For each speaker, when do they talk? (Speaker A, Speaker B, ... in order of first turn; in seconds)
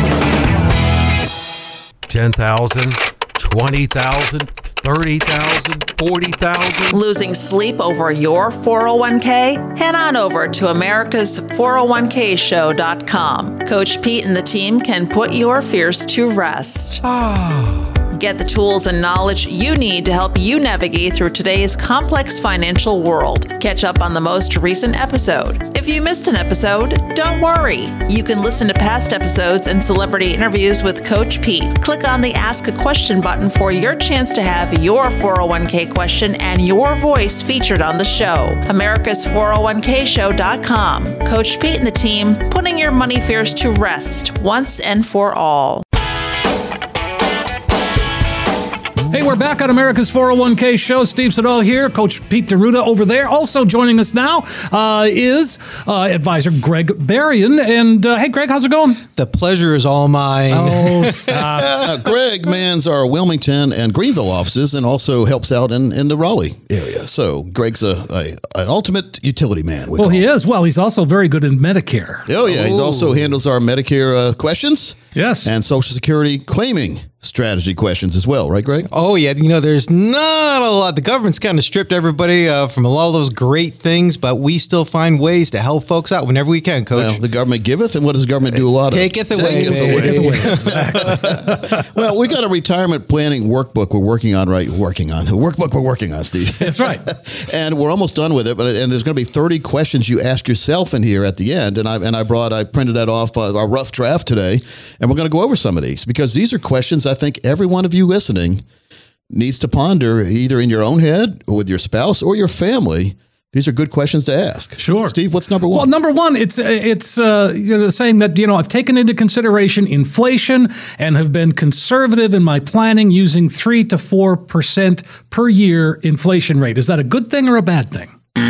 Speaker A: 2.1-6.9
Speaker B: 6.9-17.1, 18.1-45.9
Speaker C: 49.1-59.0, 60.5-61.9, 70.0-72.3, 75.2-75.5, 89.5-91.8, 96.6-97.1, 114.8-115.2, 115.7-128.1
Speaker D: 59.2-61.9, 72.5-73.2, 78.9-87.2, 88.9-91.4
Speaker E: 61.6-70.3, 72.3-78.9, 87.0-108.6, 109.3-115.9